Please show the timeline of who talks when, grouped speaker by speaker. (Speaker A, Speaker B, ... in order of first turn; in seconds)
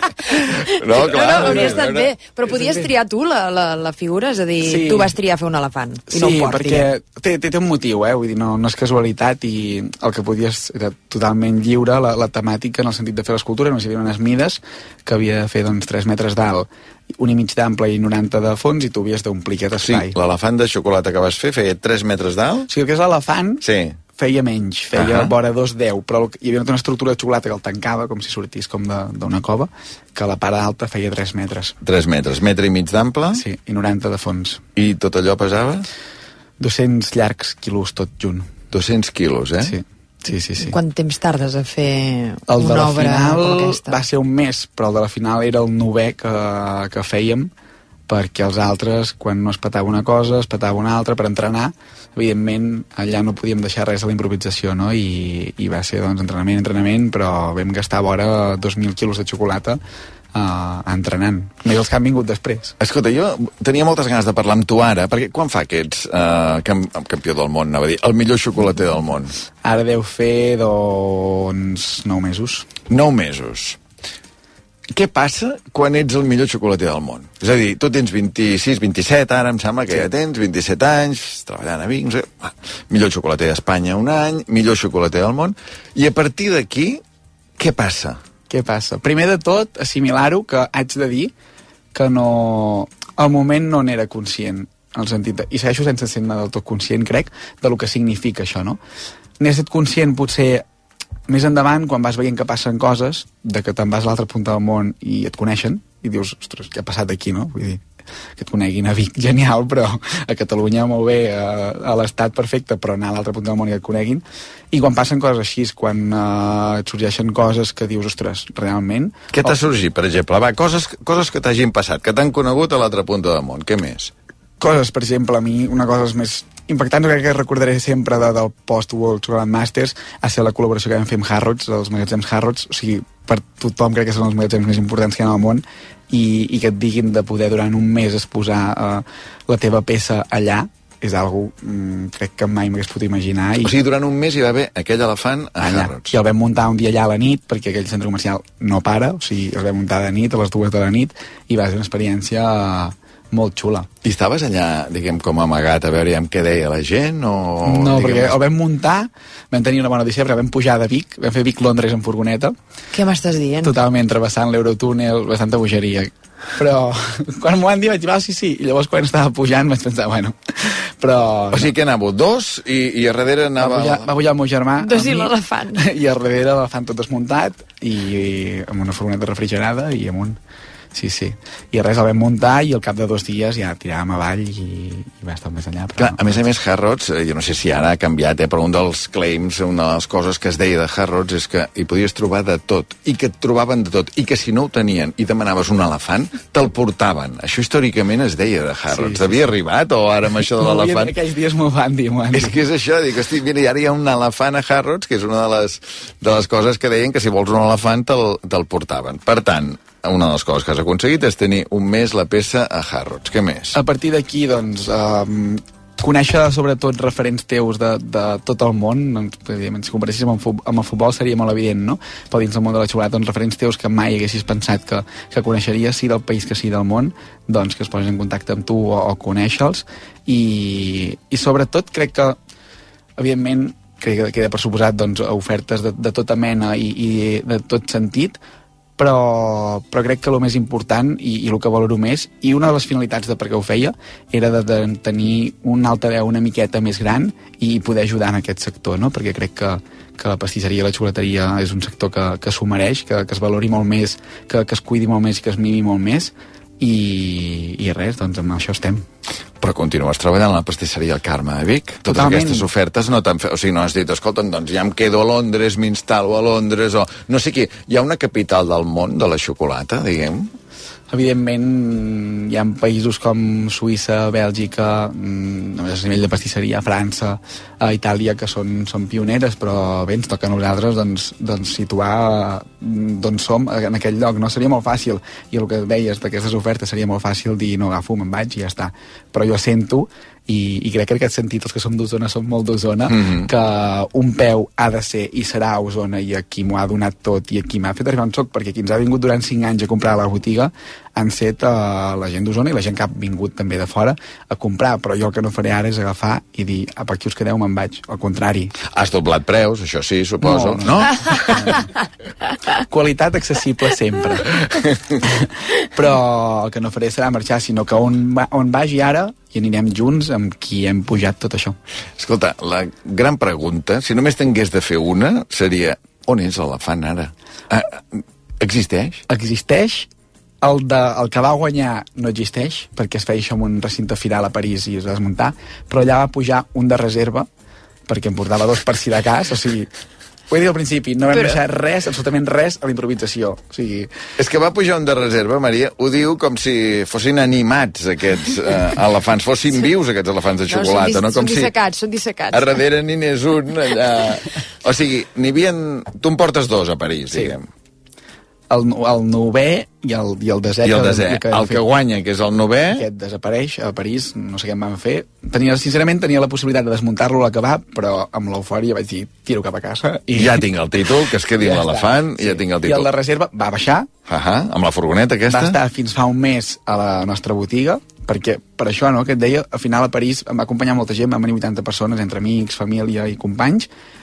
Speaker A: 0.8-2.1, 19.8-22.7, 23.6-24.0, 25.0-25.3, 31.8-33.4, 34.8-35.9, 38.7-39.7, 62.8-69.3, 72.9-73.8, 74.9-87.0, 87.6-88.2, 119.3-124.1, 143.6-146.1, 154.0-158.4, 171.5-174.1, 186.0-201.1, 202.3-213.8, 259.6-270.5, 293.1-293.5, 308.9-311.7, 322.2-329.2, 344.4-351.7, 352.5-357.7, 360.8-363.0, 370.3-373.1, 374.3-375.8
Speaker B: 1.0-2.9, 4.6-5.1, 6.1-20.1, 22.7-23.6, 24.1-31.7, 33.3-34.6, 36.6-38.5, 39.6-40.8, 42.5-47.5, 48.1-59.8, 60.3-62.7, 69.6-72.7, 88.5-91.3, 91.9-98.8, 99.4-100.6, 101.3-107.8, 108.4-119.6, 124.6-143.7, 145.6-153.9, 157.6-162.5, 163.6-171.7, 173.6-180.4, 180.9-186.4, 198.9-199.5, 200.6-202.6, 213.7-232.4, 233.2-238.4, 239.0-259.0, 262.0-262.7, 271.1-308.7, 310.4-311.8, 312.9-314.6, 315.9-321.8, 329.3-330.1, 330.6-337.5, 338.1-339.9, 340.5-344.1, 358.7-361.8, 362.9-370.7, 371.5-374.1, 375.5-383.9
Speaker C: 1.0-6.9, 40.6-44.0, 162.9-163.7, 174.8-175.8, 350.7-352.8